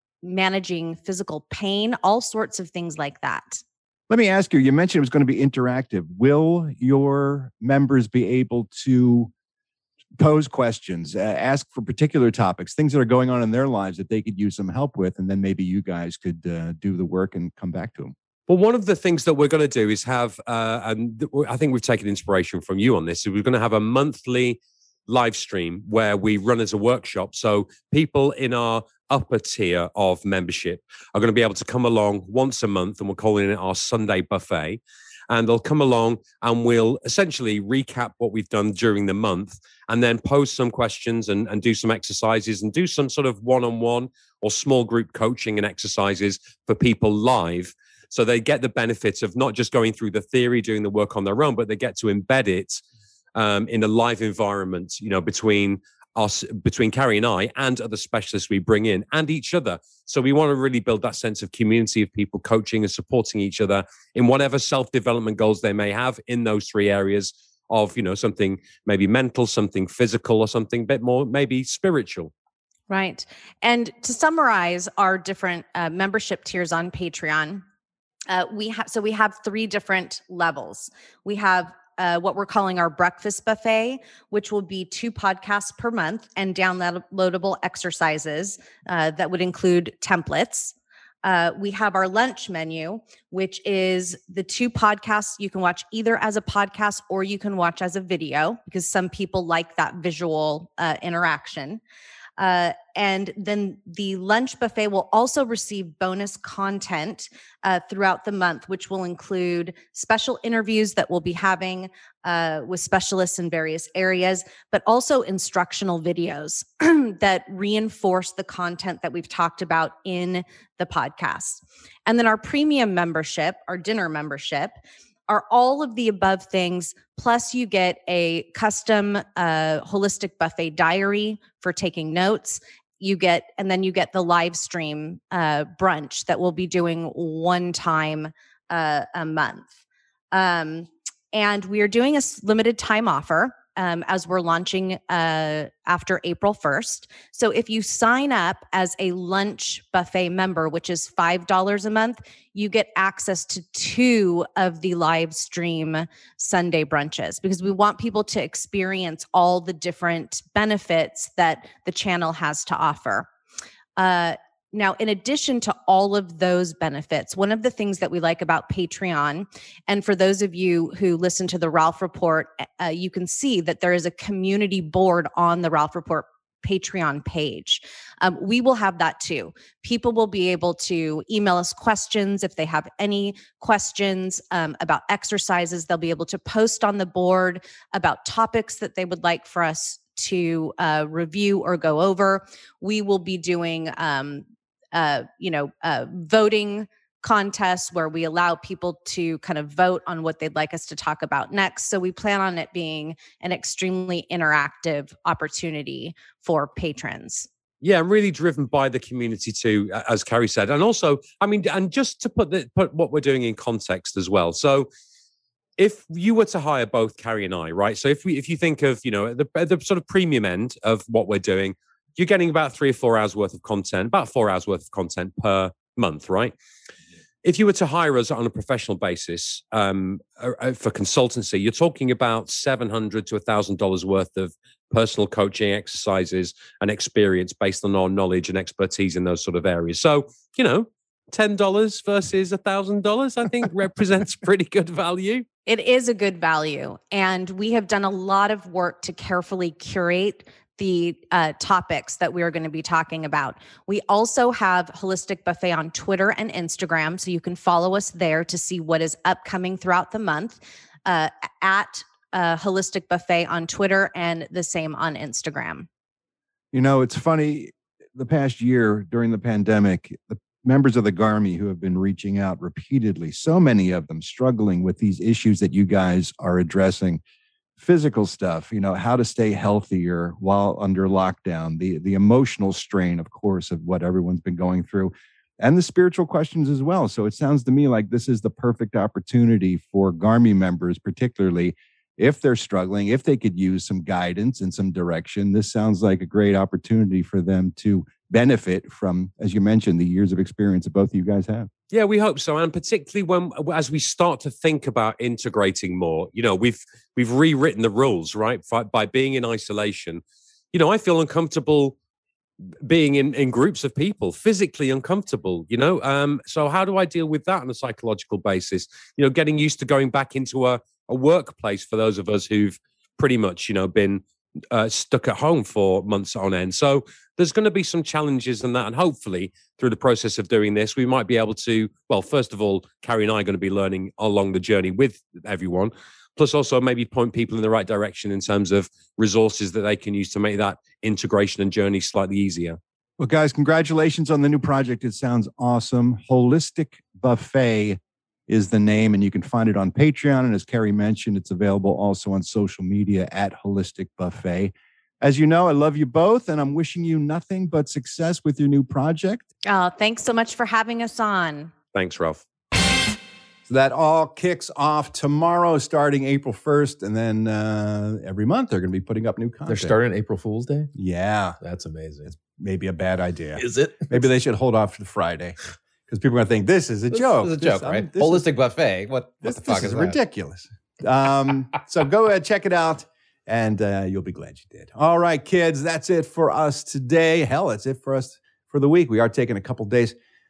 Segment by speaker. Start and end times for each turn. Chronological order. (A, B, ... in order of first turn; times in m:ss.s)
0:00.2-0:03.6 A
0:04.1-0:09.3 B
0:10.2-0:18.1 B
0:18.5-0:52.8 C
0:53.4-1:12.3 C
1:12.9-1:17.6 A
1:18.3-1:41.8 A
1:42.4-2:04.8 A
2:05.3-2:19.8 A
2:20.3-2:43.3 A
2:44.0-3:27.5 A
3:27.8-3:34.9 C
3:35.8-3:46.5 C
3:47.4-4:05.4 C
4:05.7-4:25.9 A
4:26.7-4:37.2 B
4:37.8-5:01.7 B
5:01.9-5:10.2 C
5:10.7-5:12.0 C
5:12.8-5:42.8 C
5:43.2-5:59.5 B
5:59.7-6:01.7 A
6:01.9-6:02.4 C
6:03.7-6:10.0 B
6:09.7-6:10.9 D
6:11.0-6:11.6 B
6:11.6-6:12.3 D
6:12.3-6:18.5 B
6:13.6-6:14.2 D
6:17.1-6:20.2 D
6:19.4-6:30.2 B